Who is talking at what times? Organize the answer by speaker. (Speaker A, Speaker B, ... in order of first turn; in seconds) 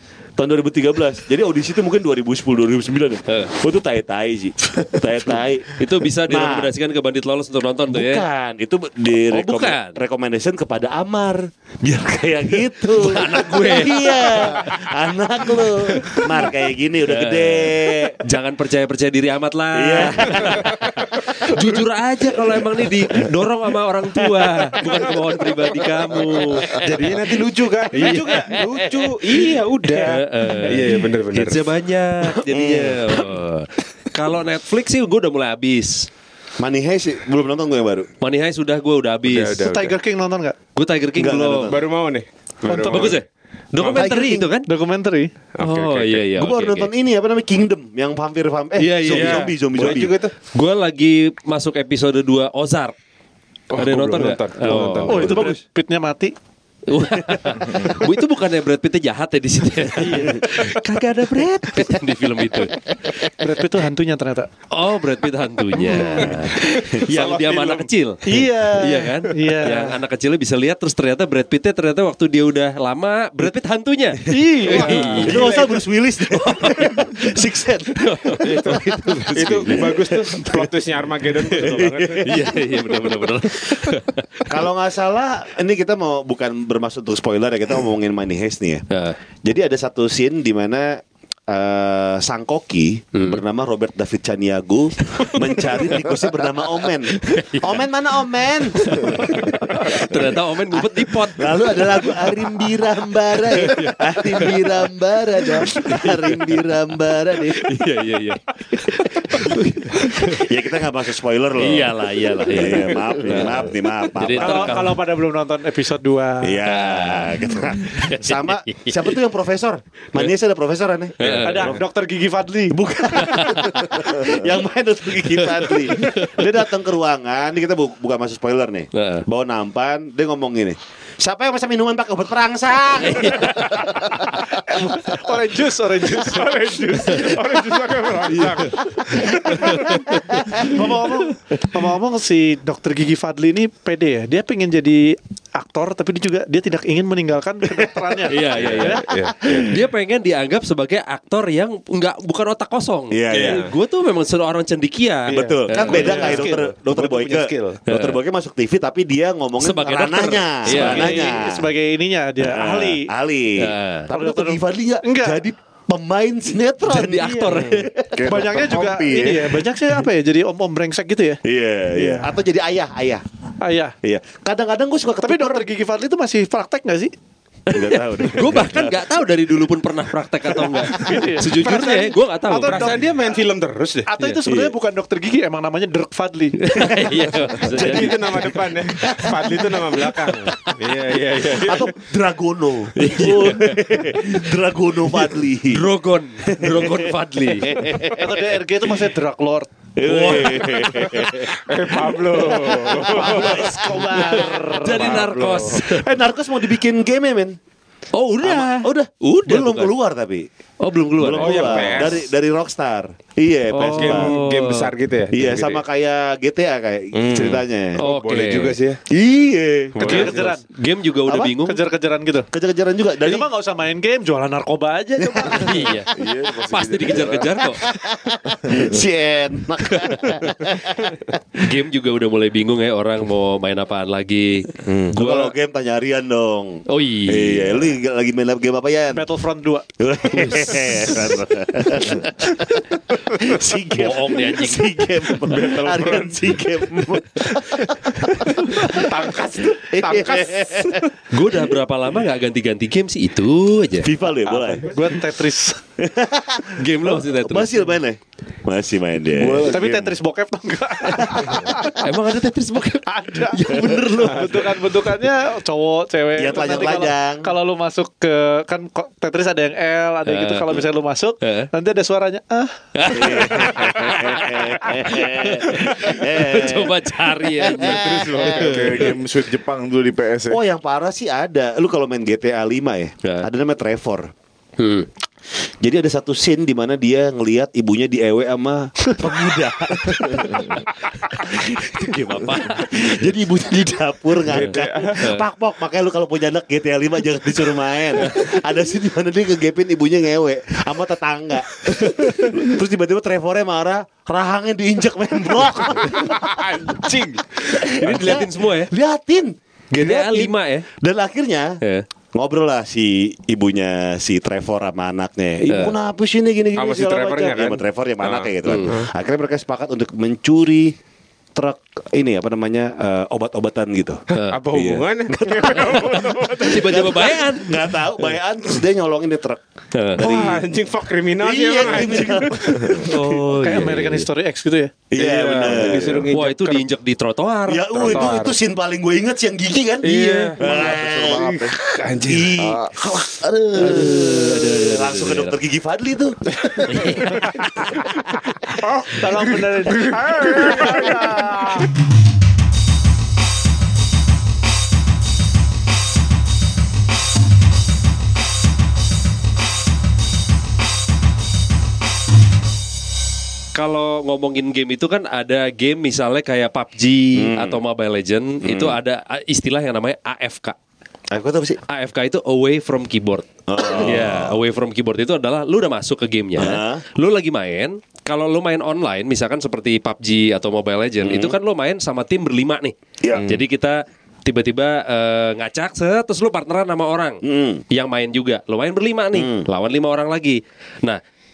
Speaker A: 0.4-6.7, 7.9-18.2, 19.8-20.7, 32.3-33.3, 36.6-38.1, 41.2-41.9, 43.9-44.5, 46.4-50.2, 75.2-80.7, 81.6-83.9, 84.5-88.8, 89.4-107.7, 109.3-114.9, 116.4-121.8, 122.7-134.5, 139.1-139.6, 140.3-140.8, 147.8-148.1, 153.1-153.6, 155.3-161.6, 162.4-168.2, 171.4-173.2, 174.0-175.7, 177.7-179.0, 180.7-181.1, 184.5-184.7, 186.8-187.3, 189.0-189.4, 191.6-195.8, 196.5-197.1, 197.6-198.4, 200.0-201.6, 202.3-207.6, 208.4-210.5, 211.2-214.3, 215.3-218.0, 219.1-220.3, 221.3-221.5, 222.5-223.5, 225.2-225.9, 227.8-231.4, 234.8-239.2, 240.0-249.1, 249.8-251.1, 254.0-254.9, 256.0-259.8, 261.2-261.9, 263.6-264.6, 266.4-267.5, 273.1-279.1, 280.5-284.3, 285.8-311.8, 312.3-321.0, 321.6-329.6, 330.1-330.7, 331.4-333.4, 335.1-336.3, 337.7-347.6, 367.4-367.8, 368.6-369.0, 371.3-371.8, 373.7-374.6, 376.6-377.0, 381.2-381.6, 387.4-387.8, 389.3-389.7
Speaker B: 5.8-8.2, 9.3-10.0, 12.9-14.7, 15.6-16.5, 17.1-26.9, 27.9-28.6, 29.9-36.1, 38.2-39.7, 40.8-41.8, 42.9-44.7, 45.6-46.9, 48.8-49.8, 50.5-52.9, 53.8-55.5, 56.9-62.8, 64.7-75.7, 76.3-77.0, 78.0-80.0, 82.2-84.6, 88.9-89.2, 93.1-93.4, 97.2-97.8, 98.8-102.5, 103.5-104.7, 105.6-106.5, 107.5-110.5, 111.6-115.0, 116.7-119.2, 121.2-121.8, 123.2-124.1, 125.2-126.5, 128.9-129.3, 133.0-134.2, 139.5-140.4, 148.3-149.1, 149.6-156.5, 157.9-158.2, 159.6-161.4, 163.6-164.1, 166.8-167.9, 177.7-183.0, 186.6-189.2, 193.0-194.5, 195.1-198.1, 200.1-201.3, 204.1-206.1, 208.1-209.9, 210.8-212.2, 213.7-214.9, 218.0-218.8, 220.0-221.8, 225.5-226.1, 226.7-227.8, 229.9-230.3, 231.6-235.5, 236.9-237.9, 240.3-241.4, 243.9-245.1, 251.3-254.1, 256.8-257.8, 262.0-264.5, 270.3-270.8, 271.4-271.7, 272.9-279.1, 284.8-285.1, 290.4-290.7, 291.4-293.3, 295.2-295.4, 307.9-308.9, 309.9-310.9, 315.7-315.9, 318.6-318.9, 326.6-327.9, 329.9-330.3, 333.0-334.3, 336.3-338.3, 343.8-345.6, 346.9-347.5, 363.8-370.8, 371.9-391.2
Speaker C: 20.3-21.7, 26.7-31.7, 39.2-40.0, 41.7-43.2, 43.8-44.1, 45.6-46.3, 49.0-50.4, 53.7-55.5, 65.8-67.9, 74.7-75.8, 78.4-82.3, 136.1-138.9, 148.6-149.8, 153.3-153.7, 155.3-157.8, 182.6-184.1, 187.6-191.9, 201.5-203.7, 205.0-205.8, 211.4-212.2, 213.8-215.8, 217.1-219.0, 219.9-220.5, 245.5-246.4, 248.8-251.0, 254.5-254.8, 278.1-278.9, 294.5-295.2, 306.1-307.6, 310.0-310.2, 316.7-319.1, 324.3-327.1, 330.2-333.0, 335.2-336.9, 338.0-338.6, 340.0-342.7, 348.8-351.9
Speaker D: 39.6-40.6, 42.7-43.2, 44.6-45.3, 55.1-56.4, 60.0-60.5, 63.3-64.5, 66.0-66.3, 68.2-70.0, 74.3-75.5, 114.3-116.6, 121.4-122.8, 134.7-137.2, 140.5-149.7, 155.9-156.6, 160.7-163.1, 164.1-165.4, 168.3-171.4, 171.9-172.3, 173.6-173.9, 175.2-177.1, 180.9-183.2, 184.1-186.6, 198.1-199.7, 203.1-204.9, 220.0-220.7, 221.6-222.5, 223.2-225.8, 239.1-239.9, 254.8-255.8, 259.7-262.0, 263.1-272.8, 333.5-334.9, 349.1-351.7
Speaker E: 168.1-169.6, 226.1-227.7, 228.6-228.9, 259.4-260.1, 277.8-280.6, 340.6-341.8, 342.6-342.9